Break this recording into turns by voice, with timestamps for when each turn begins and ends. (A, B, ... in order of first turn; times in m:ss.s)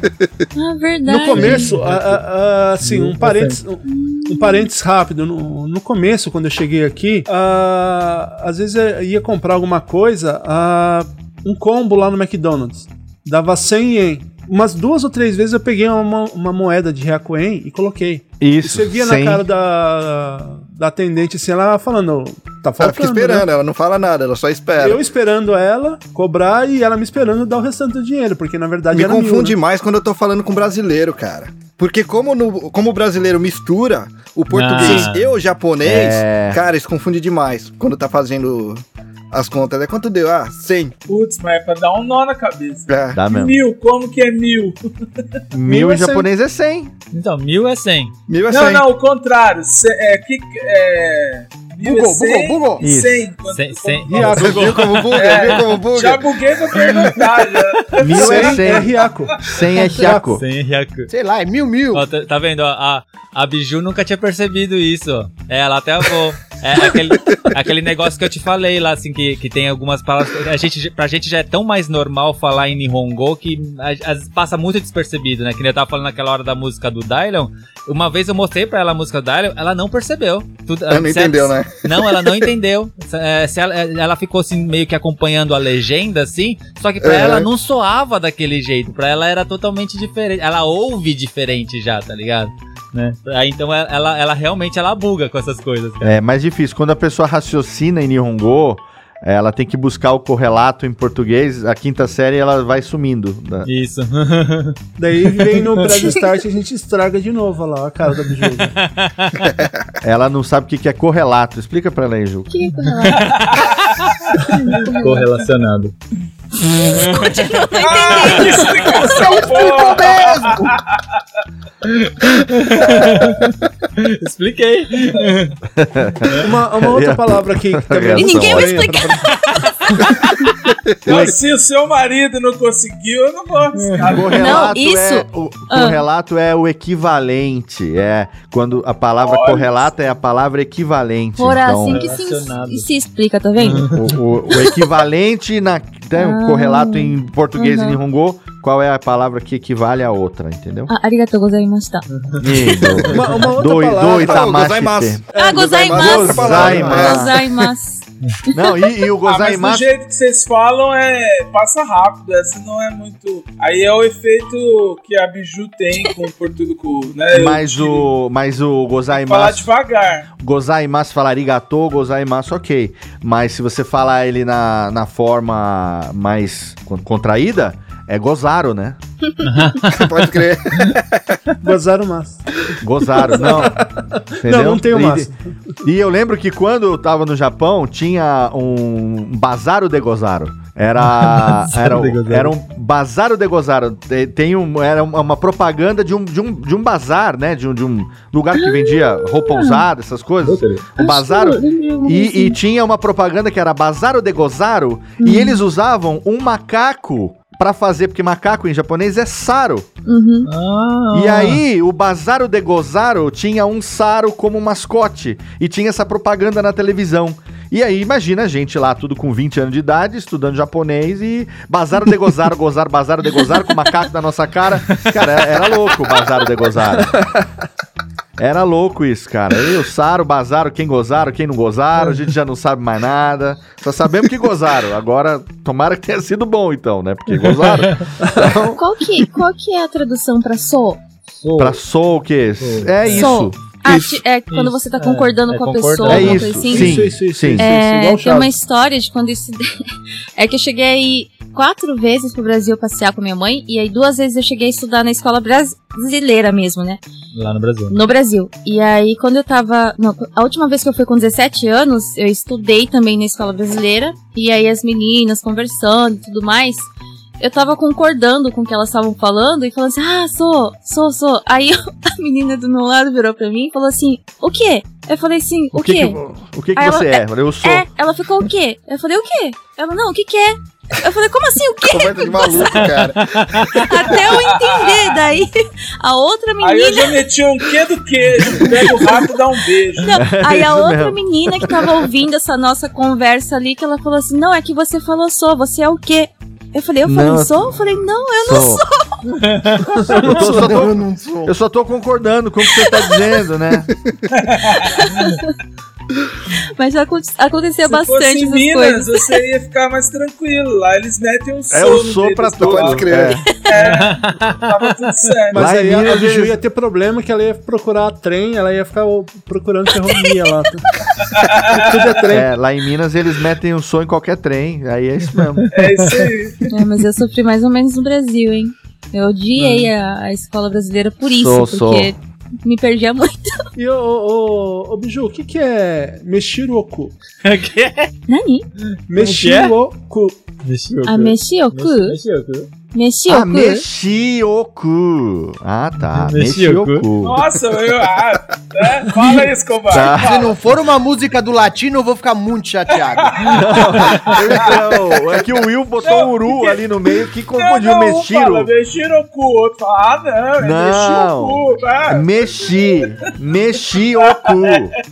0:00.5-0:01.7 A
0:01.1-0:23.5 B
0:01.4-0:01.9 C
0:02.8-0:03.6 C
0:03.8-0:04.7 A
0:18.4-0:19.4 D
0:22.8-0:25.0 E
0:24.8-0:29.6 B
0:28.9-0:40.9 E
0:34.5-0:35.3 C
0:35.8-0:36.6 D
0:41.1-0:44.8 F
0:42.9-0:43.2 E
0:43.1-0:43.6 D
0:45.5-0:46.9 D
0:45.6-0:46.3 B
0:47.1-0:48.1 C
0:48.3-0:48.9 E
0:48.5-0:58.8 F
0:51.8-0:52.8 G
0:52.8-0:53.3 D
0:53.5-0:55.6 C
0:54.0-0:54.7 B
0:54.4-0:56.3 E
0:56.9-0:57.2 C
0:58.0-1:00.4 D
0:58.1-1:00.3 B
0:59.7-1:00.1 A
1:00.3-1:01.1 C
1:01.1-1:02.0 G
1:01.9-1:36.2 C
1:20.9-1:22.3 E
1:27.0-1:27.5 E
1:36.0-1:43.7 D
1:43.6-1:44.8 C
1:45.0-1:48.7 B
1:45.4-1:45.9 C
1:48.8-1:49.4 C
1:50.0-1:52.5 D
1:52.5-1:53.4 A
1:53.0-1:53.7 C
1:53.2-1:53.8 F
1:54.5-1:55.3 A
1:54.6-1:55.9 C
1:56.8-1:59.6 A
1:56.9-1:58.7 C
1:57.7-2:01.2 F
1:59.1-2:00.6 G
2:01.8-2:05.6 C
2:05.8-2:09.0 D
2:06.4-2:09.2 B
2:08.1-2:09.6 A
2:11.0-2:14.7 F
2:13.9-2:14.3 C
2:14.1-2:22.1 D
2:14.3-2:16.0 A
2:19.2-2:19.7 F
2:21.4-2:23.9 A
2:21.9-2:22.9 C
2:23.6-2:24.1 C
2:23.9-2:30.9 D
2:24.6-2:24.8 A
2:26.2-2:28.0 A
2:30.9-2:32.0 A
2:32.2-2:33.0 C
2:32.4-2:35.2 D
2:33.1-2:34.5 B
2:34.0-2:37.4 E
2:35.3-2:39.0 A
2:35.9-2:37.5 D
2:38.5-2:39.9 D
2:39.2-2:48.1 F
2:47.3-2:49.7 D
2:49.1-2:50.3 F
2:50.4-2:59.0 D
2:59.4-3:00.3 C
2:59.9-3:01.4 E
3:01.6-3:02.4 B
3:02.8-3:03.8 D
3:03.4-3:05.3 B
3:04.4-3:05.3 D
3:05.8-3:29.9 D
3:11.0-3:12.5 C
3:18.5-3:19.8 A
3:20.4-3:20.9 C
3:21.0-3:22.6 A
3:25.2-3:25.6 A
3:30.0-3:30.5 A
3:30.4-3:31.6 C
3:31.1-3:47.3 D
3:48.4-3:58.8 D
3:57.3-3:58.0 C
3:58.2-3:58.5 B
3:58.7-4:01.0 A
4:01.4-4:01.8 C
4:01.6-4:03.6 D
4:02.6-4:03.4 C
4:03.1-4:09.8 A
4:04.5-4:06.7 C
4:06.1-4:07.7 D
4:06.7-4:08.5 B
4:10.4-4:17.0 A
4:17.3-4:18.0 C
4:17.9-4:26.8 A
4:27.4-4:36.2 A
4:35.7-4:37.9 D
4:36.7-4:43.0 A
4:41.9-4:43.2 E
4:42.7-4:44.0 C
4:43.7-4:47.2 A
4:44.1-4:45.1 F
4:46.6-4:50.2 F
4:50.0-4:59.2 A
4:50.1-4:51.9 D
4:57.0-4:57.8 D
4:58.4-4:58.8 D
4:59.3-5:00.1 C
5:00.0-5:00.7 B
5:00.1-5:03.9 D
5:00.3-5:01.5 G
5:02.7-5:03.3 A
5:04.3-5:05.0 F
5:04.8-5:05.5 A
5:06.8-5:09.4 A
5:07.8-5:13.2 F
5:11.7-5:13.4 D
5:12.6-5:13.4 E
5:13.4-5:13.7 A
5:13.7-5:15.7 F
5:13.7-5:15.0 C
5:15.5-5:20.8 B
5:15.5-5:16.6 D
5:21.3-5:22.1 F
5:21.7-5:22.5 B
5:22.3-5:25.6 D
5:25.6-5:26.1 C
5:25.7-5:26.7 F
5:26.7-5:33.6 A
5:31.2-5:32.1 D
5:33.8-5:37.1 B
5:37.4-5:38.1 C
5:38.3-5:38.6 A
5:39.1-5:40.4 B
5:39.1-5:39.7 C
5:40.6-5:42.7 C
5:41.0-5:42.2 A
5:42.9-5:43.8 A
5:43.3-5:47.4 D
5:46.1-5:47.1 C
5:47.2-5:50.5 F
5:49.9-5:50.5 D
5:50.0-5:53.5 G
5:53.0-5:55.3 F
5:53.5-5:58.7 D
5:56.0-5:56.8 F
5:57.5-6:02.5 F
6:00.6-6:04.9 D